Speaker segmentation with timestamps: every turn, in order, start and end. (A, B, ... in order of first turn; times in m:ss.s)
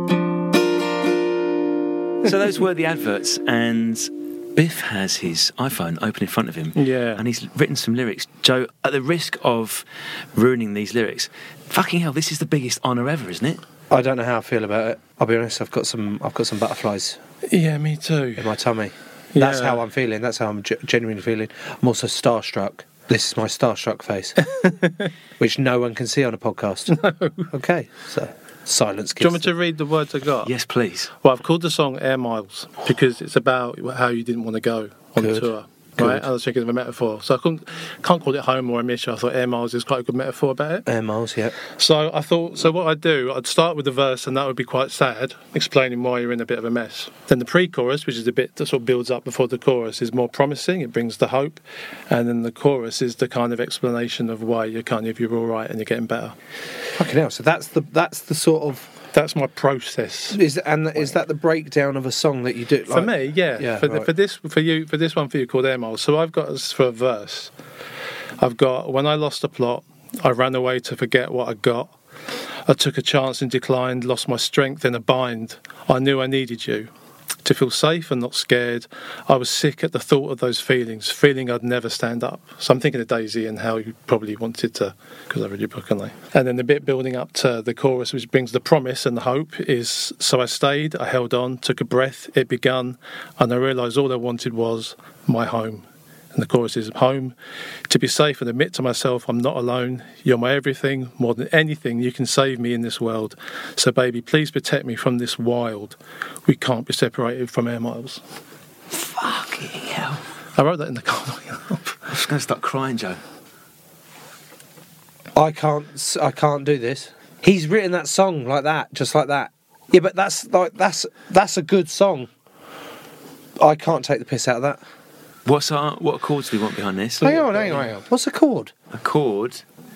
0:02.2-0:13.6 A
0:06.8-0:07.2 B
0:13.9-0:17.2 C
0:17.5-0:18.5 B
0:18.4-0:24.4 C
0:19.4-0:19.8 B
0:24.6-0:25.1 B
0:25.4-0:27.0 C
0:26.9-0:27.5 B
0:27.5-0:29.5 C
0:29.2-0:30.5 B
0:30.4-0:31.1 A
0:31.2-0:40.9 B
0:35.2-0:36.3 C
0:40.9-0:41.6 C
0:41.8-0:56.4 B
0:57.0-0:58.9 C
0:59.1-1:00.4 B
1:00.3-1:04.1 C
1:02.9-1:07.5 B
1:08.4-1:11.9 B
1:12.7-1:16.9 B
1:17.4-1:37.3 B
1:37.9-1:48.2 B
1:48.9-1:50.2 A
1:50.6-1:52.0 B
1:52.1-1:53.2 A
1:55.3-2:02.3 C
2:03.6-2:04.8 C
2:05.5-2:07.9 A
2:07.2-2:08.7 C
2:08.9-2:09.6 A